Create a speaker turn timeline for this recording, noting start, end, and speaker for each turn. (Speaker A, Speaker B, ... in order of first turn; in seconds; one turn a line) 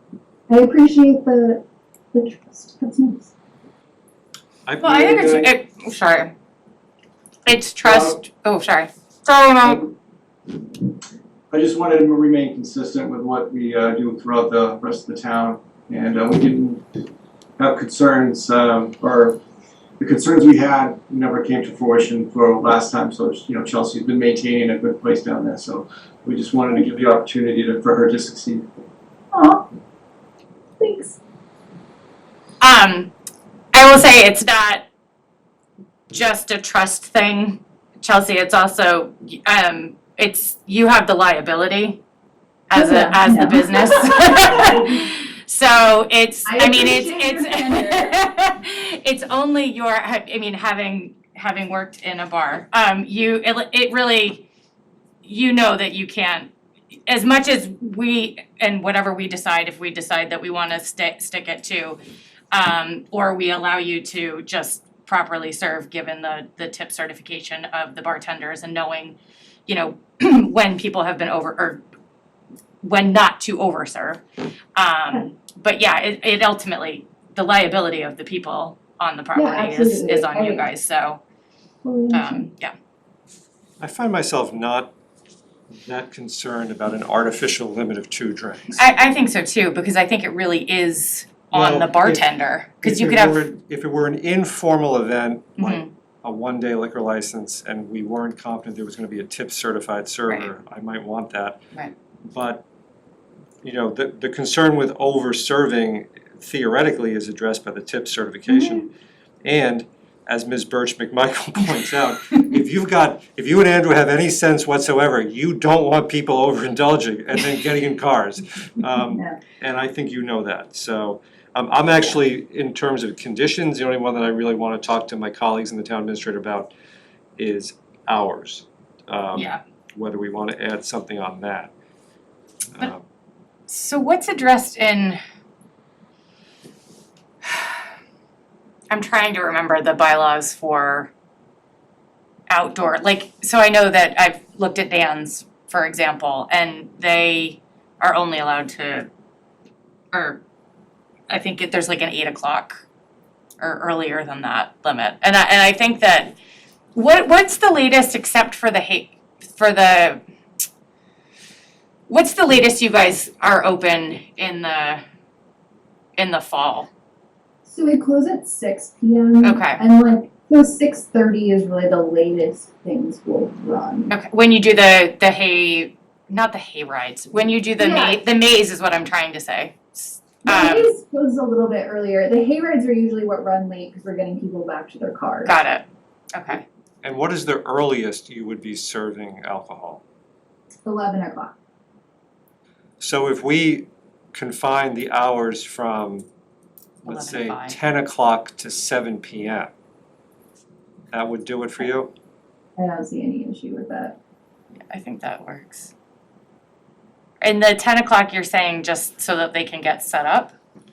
Speaker A: 0.5-1.6
Speaker A: 2.1-3.3
Speaker B: 4.7-5.0
Speaker C: 4.8-6.3
Speaker D: 4.8-5.5
Speaker C: 7.5-9.9
Speaker D: 7.8-8.2
Speaker D: 11.5-16.8
Speaker D: 17.6-19.4
Speaker D: 20.0-28.7
Speaker A: 29.3-29.6
Speaker A: 30.8-31.2
Speaker C: 32.6-33.1
Speaker C: 33.7-34.8
Speaker C: 36.1-42.0
Speaker C: 42.7-54.5
Speaker A: 42.7-44.9
Speaker A: 46.5-48.1
Speaker C: 55.2-56.5
Speaker C: 57.1-62.0
Speaker C: 62.5-71.8
Speaker C: 72.8-74.2
Speaker C: 74.8-81.2
Speaker A: 79.3-80.7
Speaker A: 81.8-82.5
Speaker C: 82.1-82.7
Speaker B: 83.8-84.9
Speaker B: 85.7-88.8
Speaker C: 88.7-93.5
Speaker B: 91.5-92.3
Speaker B: 92.8-101.6
Speaker C: 95.6-95.9
Speaker B: 102.3-102.6
Speaker B: 103.6-108.9
Speaker B: 109.4-126.7
Speaker A: 119.0-119.4
Speaker B: 127.4-131.7
Speaker C: 133.7-135.2
Speaker C: 138.9-141.1
Speaker C: 142.5-149.1
Speaker C: 150.1-150.4
Speaker C: 151.3-152.8
Speaker C: 153.6-156.3
Speaker C: 156.9-160.2
Speaker C: 162.1-165.0
Speaker C: 166.2-166.9
Speaker A: 167.6-174.1
Speaker C: 169.4-169.8
Speaker C: 174.1-180.9
Speaker A: 177.8-178.2
Speaker A: 180.4-185.5
Speaker C: 185.4-186.6
Speaker B: 187.0-190.0
Speaker A: 190.8-191.5
Speaker B: 193.0-196.2
Speaker C: 197.0-197.8
Speaker B: 197.0-199.7
Speaker B: 201.1-202.1
Speaker A: 202.8-204.2
Speaker C: 204.9-205.9
Speaker C: 207.4-210.5